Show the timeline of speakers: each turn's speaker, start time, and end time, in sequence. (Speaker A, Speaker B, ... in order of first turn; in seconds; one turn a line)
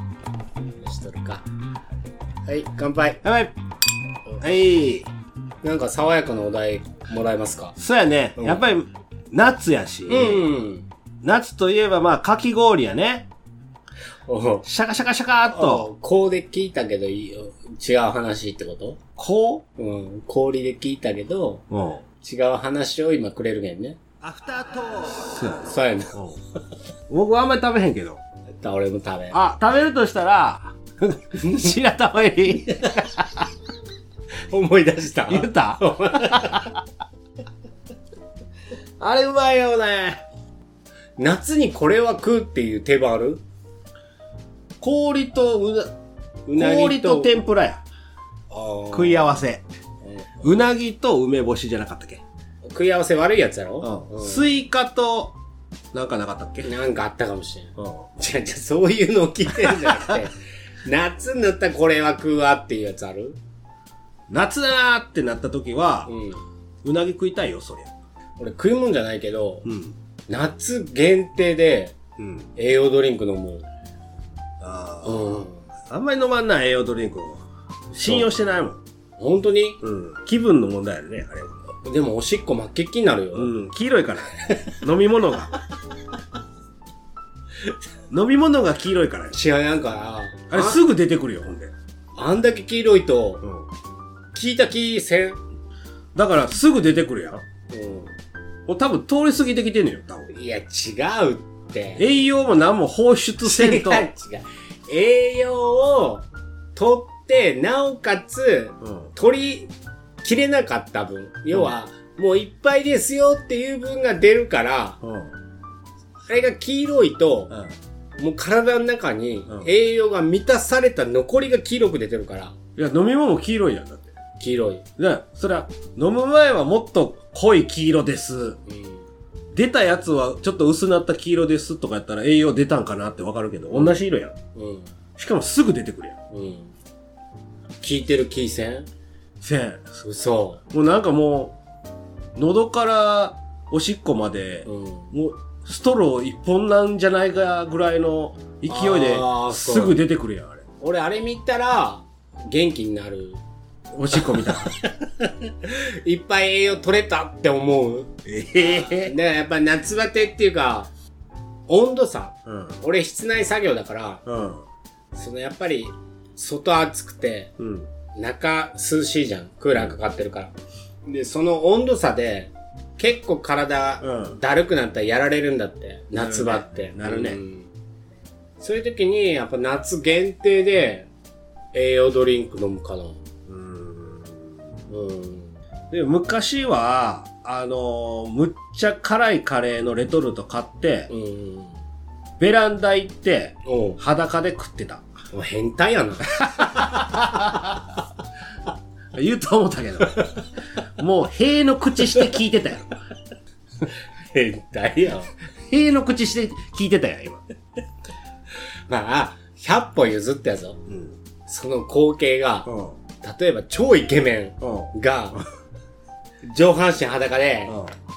Speaker A: 0.8-1.4
Speaker A: 2.5-3.2
Speaker B: 3.2-3.5
Speaker B: 4.3-5.1
Speaker A: 5.6-7.7
Speaker B: 7.8-10.5
Speaker A: 10.1-10.9
Speaker B: 11.2-13.3
Speaker A: 14.3-14.7
Speaker B: 14.6-15.9
Speaker A: 15.4-19.0
Speaker B: 19.2-19.6
Speaker A: 19.8-21.6
Speaker B: 21.7-22.0
Speaker A: 22.2-24.0
Speaker B: 24.2-26.4
Speaker A: 25.6-26.2
Speaker B: 27.1-28.2
Speaker A: 28.6-29.4
Speaker B: 29.3-32.9
Speaker A: 31.4-31.8
Speaker A: 34.5-36.8
Speaker B: 35.3-35.8
Speaker B: 39.0-40.2
Speaker A: 41.2-43.4
Speaker B: 44.8-45.9
Speaker A: 46.5-47.4
Speaker B: 46.5-47.8
Speaker A: 48.5-49.4
Speaker B: 48.9-49.6
Speaker A: 50.0-50.5
Speaker B: 50.4-52.2
Speaker A: 52.6-54.5
Speaker B: 53.8-55.4
Speaker B: 55.9-56.7
Speaker A: 56.6-60.3
Speaker B: 57.8-58.1
Speaker A: 60.9-63.4
Speaker B: 64.3-66.1
Speaker A: 66.1-66.4
Speaker B: 66.8-67.9
Speaker A: 68.4-69.7
Speaker B: 69.7-69.9
Speaker A: 70.3-72.0
Speaker B: 72.2-72.5
Speaker A: 72.6-73.7
Speaker B: 74.6-75.3
Speaker A: 75.0-75.7
Speaker B: 75.9-77.4
Speaker B: 77.9-78.8
Speaker A: 78.0-78.3
Speaker A: 79.2-79.8
Speaker B: 79.8-81.5
Speaker A: 81.8-83.5
Speaker B: 83.3-85.5
Speaker B: 88.1-89.4
Speaker A: 89.3-90.8
Speaker B: 90.5-91.7
Speaker A: 92.2-93.4
Speaker A: 94.3-95.4
Speaker B: 96.2-97.4
Speaker A: 97.7-98.1
Speaker B: 98.7-100.3
Speaker A: 100.3-102.0
Speaker B: 102.0-104.1
Speaker A: 103.4-109.7
Speaker B: 108.8-109.1
Speaker A: 110.2-115.0
Speaker B: 115.0-115.3
Speaker A: 116.2-117.5
Speaker A: 118.2-122.5
Speaker B: 122.8-124.1
Speaker A: 124.4-124.8
Speaker B: 125.0-128.6
Speaker A: 128.7-129.1
Speaker B: 129.5-134.3
Speaker A: 134.5-134.9
Speaker B: 135.2-136.2
Speaker A: 136.3-136.7
Speaker A: 137.8-138.9
Speaker B: 139.4-139.9
Speaker A: 140.0-140.6
Speaker B: 140.7-141.6
Speaker B: 142.4-150.6
Speaker A: 144.7-145.1
Speaker A: 148.7-150.0
Speaker A: 150.8-153.4
Speaker B: 153.9-154.7
Speaker A: 154.1-158.1
Speaker B: 158.2-159.1
Speaker A: 158.8-160.9
Speaker A: 161.7-164.2
Speaker B: 162.4-162.8
Speaker B: 164.2-164.6
Speaker A: 165.1-167.5
Speaker B: 167.6-167.9
Speaker A: 168.1-170.5
Speaker A: 171.1-177.7
Speaker B: 174.0-174.4
Speaker B: 176.2-177.4
Speaker A: 178.6-181.1
Speaker A: 181.7-183.2
Speaker B: 183.5-184.6
Speaker A: 184.9-185.6
Speaker B: 185.9-191.1
Speaker A: 191.1-191.8
Speaker B: 192.4-195.1
Speaker A: 193.6-194.0
Speaker A: 195.3-197.9
Speaker B: 196.6-197.2
Speaker B: 199.1-200.2
Speaker B: 201.0-202.9
Speaker A: 203.8-205.3
Speaker B: 205.7-207.4
Speaker A: 208.9-210.8
Speaker B: 210.9-211.1
Speaker A: 211.5-212.7
Speaker B: 212.7-212.9
Speaker A: 213.2-215.4
Speaker B: 214.6-214.9
Speaker A: 216.5-217.8
Speaker B: 217.7-217.9